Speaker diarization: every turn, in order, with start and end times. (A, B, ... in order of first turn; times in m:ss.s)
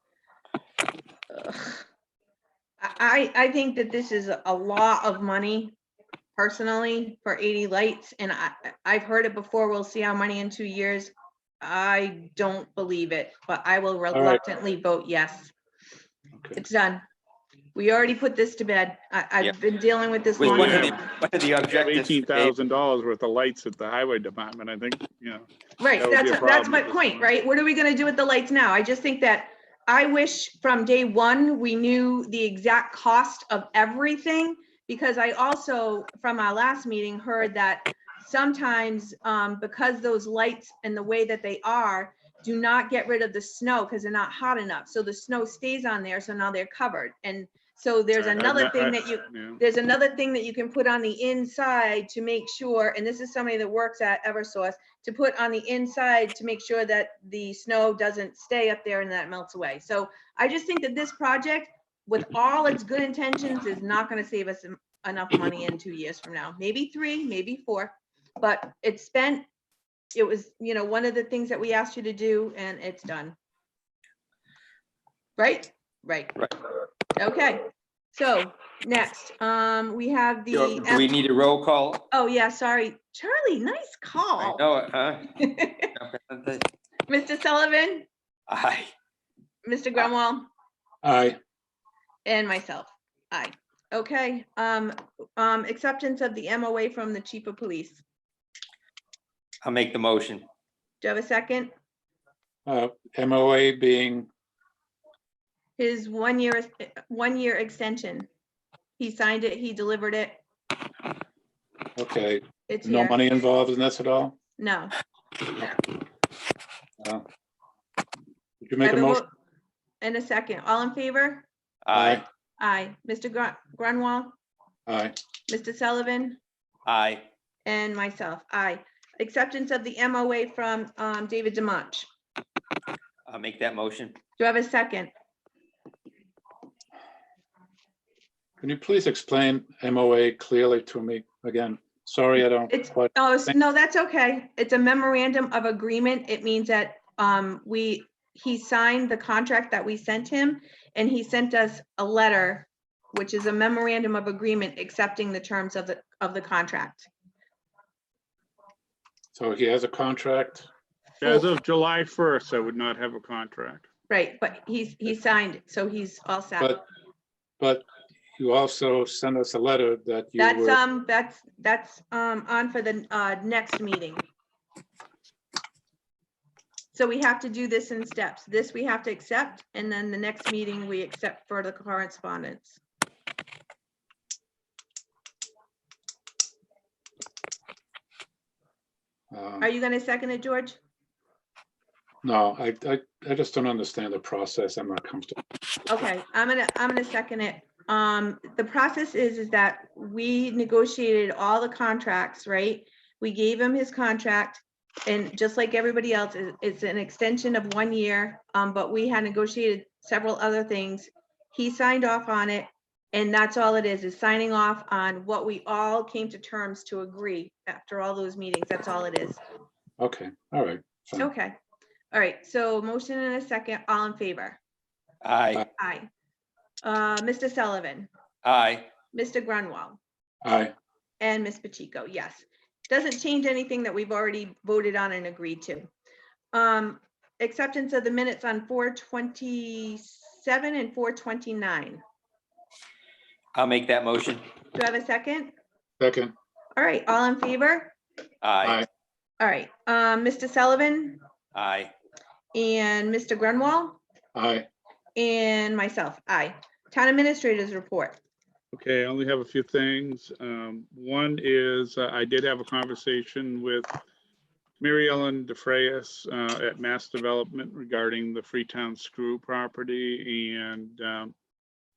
0:01.3-0:01.9 A
0:02.8-0:05.8 A
0:06.4-0:15.5 A
0:14.1-0:14.4 B
0:16.6-0:17.0 A
0:17.8-0:21.1 A
0:20.4-0:22.5 C
0:20.5-0:20.9 D
0:21.7-0:27.3 D
0:25.8-1:09.5 A
0:48.2-0:49.6 D
1:10.1-1:13.4 A
1:15.4-1:16.4 A
1:17.2-1:21.1 A
1:20.5-1:22.1 C
1:22.1-1:24.6 A
1:24.4-1:25.4 C
1:25.4-1:25.9 A
1:25.9-1:26.7 C
1:27.1-1:28.1 A
1:28.5-1:28.9 C
1:29.6-1:30.5 A
1:31.0-1:31.4 B
1:32.3-1:38.0 A
1:39.6-1:40.5 C
1:41.0-1:41.7 A
1:42.7-1:44.3 B
1:45.8-1:48.3 A
1:49.0-1:50.4 A
1:52.0-1:54.4 B
1:52.7-1:53.2 A
1:54.6-1:54.9 A
1:57.0-1:57.2 B
1:58.6-1:59.2 B
1:58.8-1:59.3 A
2:00.0-2:01.5 A
2:01.8-2:02.2 C
2:01.9-2:02.2 B
2:02.6-2:04.4 A
2:04.9-2:05.1 B
2:05.5-2:06.4 A
2:06.9-2:07.3 C
2:07.6-2:12.1 A
2:13.3-2:14.2 C
2:14.4-2:15.1 A
2:18.6-2:23.5 B
2:22.7-2:37.1 A
2:39.3-2:40.7 B
2:41.2-2:43.9 D
2:44.1-2:46.8 A
2:47.6-2:47.8 B
2:48.4-2:50.8 B
2:50.4-2:54.2 A
2:56.9-3:02.8 A
3:09.3-3:09.7 B
3:09.6-3:10.8 A
3:12.2-3:15.4 B
3:15.9-3:39.4 A
3:40.0-3:41.3 B
3:41.2-3:41.6 A
3:42.1-3:44.6 A
3:45.2-3:45.6 C
3:45.8-3:46.1 A
3:46.8-3:48.1 A
3:48.4-3:48.9 C
3:49.1-3:50.0 A
3:50.4-3:50.7 B
3:51.2-3:55.9 A
3:56.5-4:02.0 A
4:03.6-4:04.5 C
4:04.7-4:05.5 A
4:06.0-4:06.3 B
4:06.8-4:08.0 A
4:08.4-4:08.8 C
4:09.4-4:11.2 A
4:11.5-4:11.9 C
4:12.5-4:14.0 A
4:14.4-4:14.7 B
4:15.2-4:18.2 A
4:18.7-4:24.0 D
4:24.8-4:31.4 D